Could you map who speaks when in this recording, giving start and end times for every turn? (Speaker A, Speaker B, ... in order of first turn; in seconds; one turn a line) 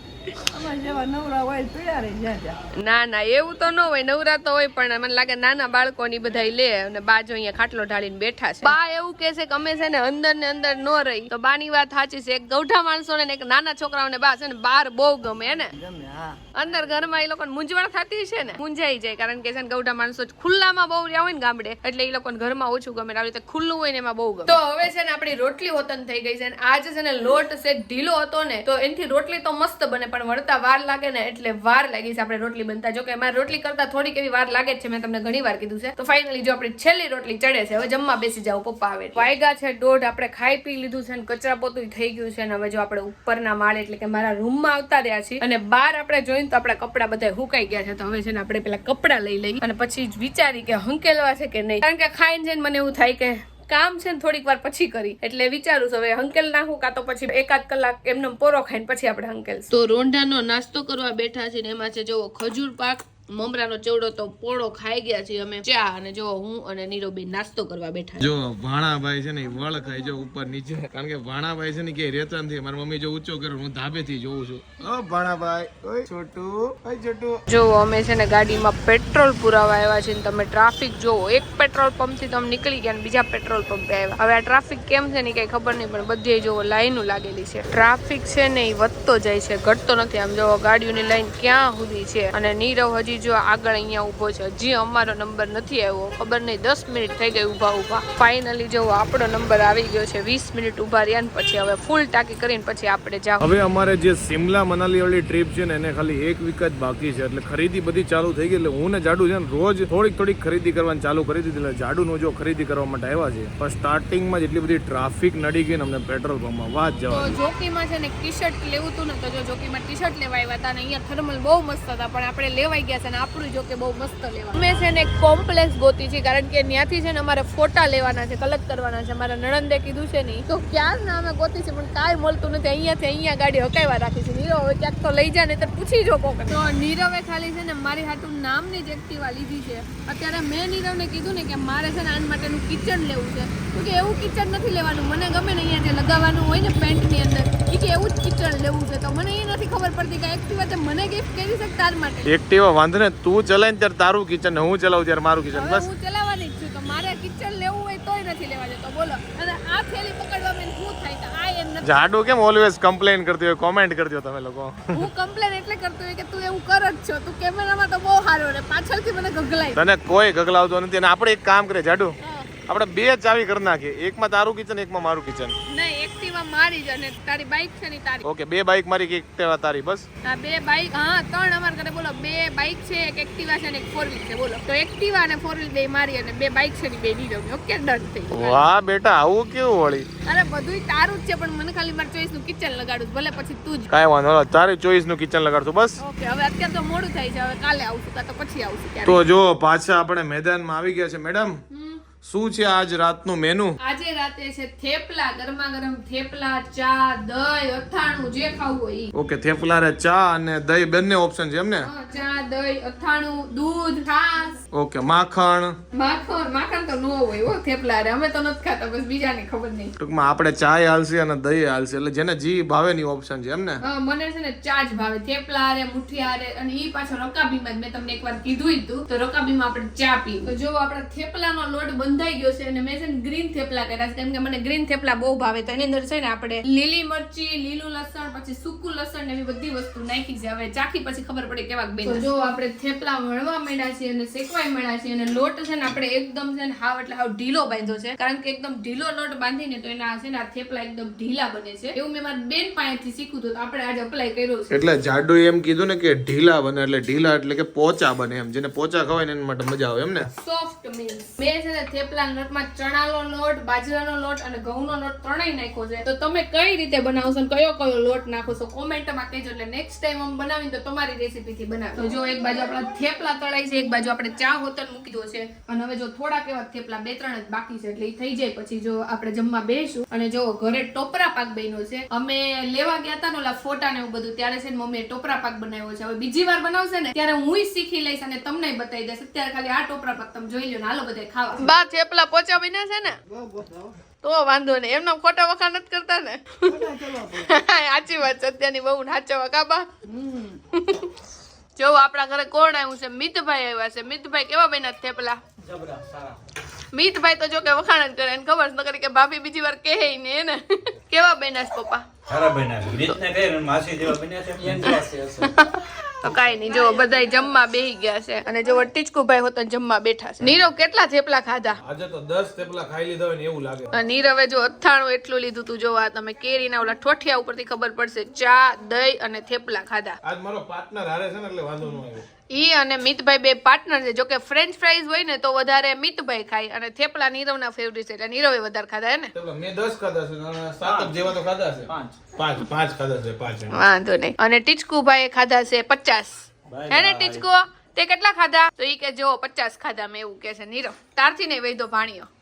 Speaker A: 0.5-2.6
Speaker B: 2.8-15.7
Speaker A: 15.8-16.4
Speaker B: 16.5-68.3
Speaker C: 68.2-77.4
Speaker B: 77.5-103.5
Speaker C: 103.4-117.4
Speaker B: 117.1-152.3
Speaker C: 152.2-155.9
Speaker B: 155.5-162.1
Speaker C: 161.8-165.1
Speaker B: 164.9-169.8
Speaker C: 169.7-172.1
Speaker B: 172.2-172.5
Speaker C: 172.7-175.5
Speaker B: 175.7-178.2
Speaker C: 178.2-180.1
Speaker B: 180.2-188.7
Speaker C: 188.3-190.1
Speaker B: 190.2-193.9
Speaker C: 193.9-196.0
Speaker B: 196.0-199.2
Speaker C: 199.0-201.6
Speaker B: 201.7-202.0
Speaker C: 202.2-203.8
Speaker B: 203.8-209.1
Speaker C: 209.1-211.9
Speaker B: 211.8-214.6
Speaker C: 214.7-215.8
Speaker B: 215.9-219.9
Speaker C: 220.0-223.8
Speaker B: 223.8-254.8
Speaker C: 254.7-260.3
Speaker B: 260.4-293.2
Speaker A: 293.3-293.9
Speaker B: 294.2-299.9
Speaker A: 296.7-297.4
Speaker A: 300.2-300.5
Speaker B: 300.7-301.1
Speaker B: 301.8-305.4
Speaker D: 305.7-306.4
Speaker B: 306.9-312.0
Speaker D: 312.3-315.5
Speaker B: 314.8-321.8
Speaker C: 321.8-323.9
Speaker B: 323.9-330.2
Speaker C: 330.2-332.2
Speaker B: 332.5-339.3
Speaker C: 339.3-343.8
Speaker D: 340.8-341.1
Speaker D: 341.9-342.2
Speaker B: 343.7-352.3
Speaker D: 346.7-347.5